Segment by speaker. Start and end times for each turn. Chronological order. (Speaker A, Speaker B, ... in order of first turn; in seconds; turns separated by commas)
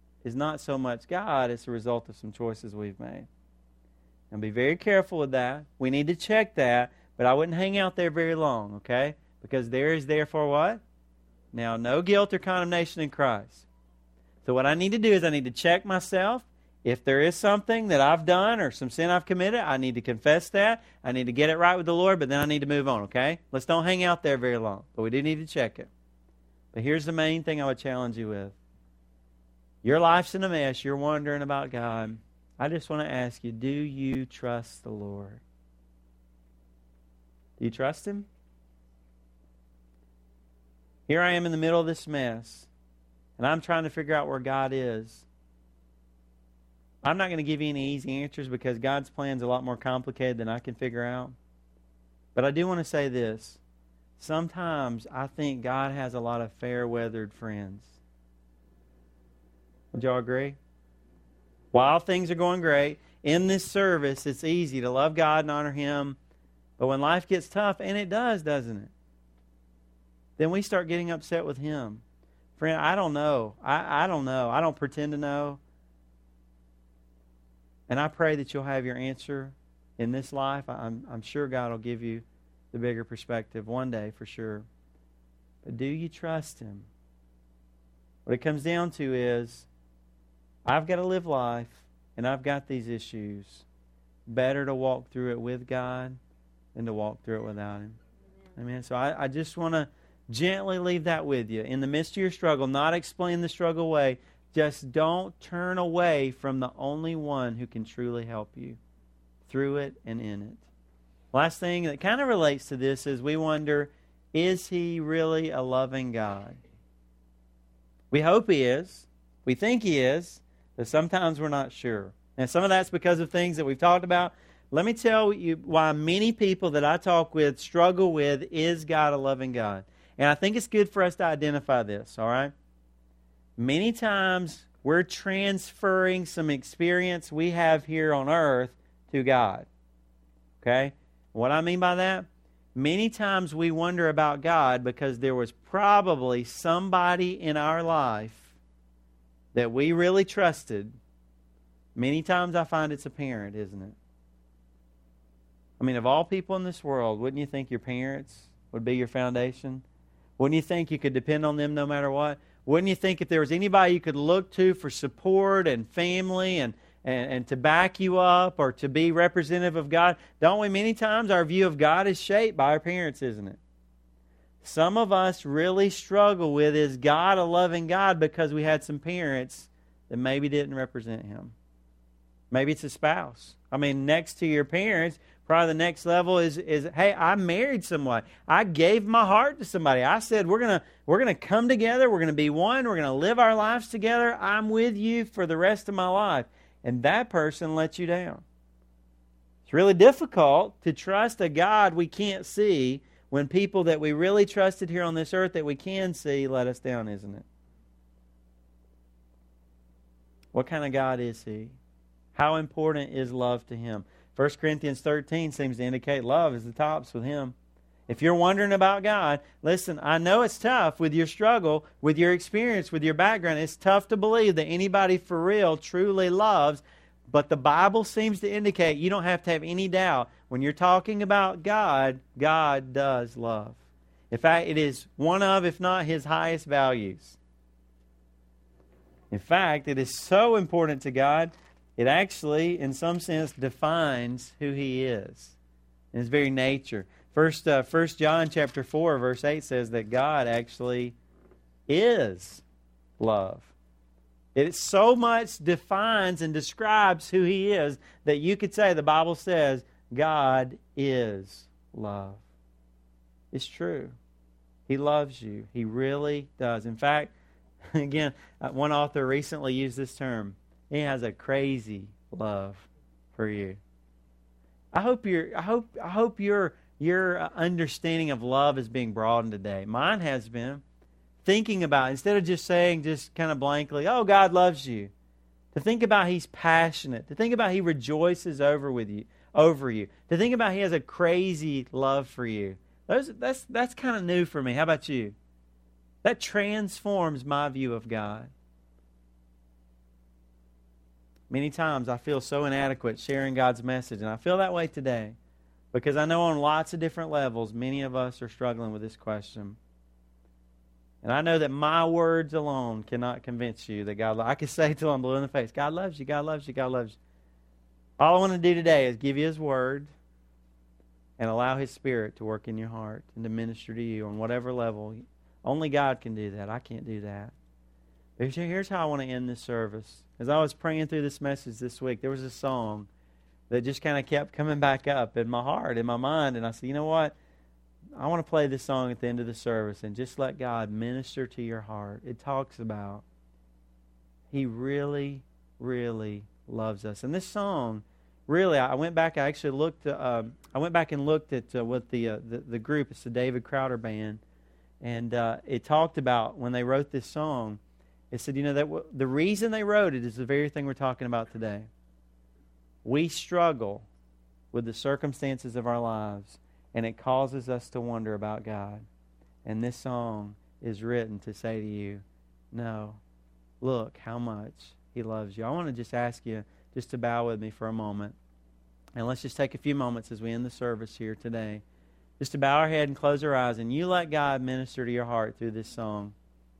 Speaker A: 0.2-3.3, Speaker A: 4.3-10.8, Speaker A: 11.5-13.7, Speaker A: 14.4-25.9, Speaker A: 26.7-28.6, Speaker A: 29.8-35.4, Speaker A: 37.6-38.3, Speaker A: 41.1-42.7, Speaker A: 43.4-45.3, Speaker A: 47.0-51.4, Speaker A: 52.3-53.6, Speaker A: 54.2-58.0, Speaker A: 59.9-60.6, Speaker A: 61.7-66.2, Speaker A: 66.8-68.9, Speaker A: 70.4-72.0, Speaker A: 72.6-75.6, Speaker A: 77.9-84.7, Speaker A: 85.6-86.9, Speaker A: 88.2-89.7, Speaker A: 90.7-93.7, Speaker A: 94.3-96.2, Speaker A: 96.7-98.0, Speaker A: 98.5-108.8, Speaker A: 109.5-110.6, Speaker A: 111.3-116.6, Speaker A: 118.1-132.5, Speaker A: 133.6-139.7, Speaker A: 140.6-148.5, Speaker A: 149.5-150.9, Speaker A: 151.9-153.9, Speaker A: 155.8-159.8, Speaker A: 160.4-173.6, Speaker A: 174.6-181.5, Speaker A: 182.5-198.4, Speaker A: 199.7-207.4, Speaker A: 210.5-211.8, Speaker A: 212.3-217.5, Speaker A: 218.1-233.8, Speaker A: 234.3-237.4, Speaker A: 239.3-245.6, Speaker A: 246.1-251.2, Speaker A: 251.9-252.6, Speaker A: 253.2-253.7, Speaker A: 254.5-262.4, Speaker A: 263.5-264.1, Speaker A: 264.9-267.3, Speaker A: 267.9-273.8, Speaker A: 274.9-280.8, Speaker A: 281.4-285.1, Speaker A: 285.7-295.4, Speaker A: 296.2-298.5, Speaker A: 301.5-305.4, Speaker A: 305.9-309.8, Speaker A: 311.2-317.2, Speaker A: 318.2-320.1, Speaker A: 321.4-327.5, Speaker A: 328.4-333.1, Speaker A: 333.7-337.4, Speaker A: 338.1-343.2, Speaker A: 344.5-354.4, Speaker A: 355.0-357.8, Speaker A: 358.3-361.9, Speaker A: 363.0-364.1, Speaker A: 364.7-369.0, Speaker A: 369.6-373.2, Speaker A: 373.8-378.4, Speaker A: 379.1-381.8, Speaker A: 382.4-386.3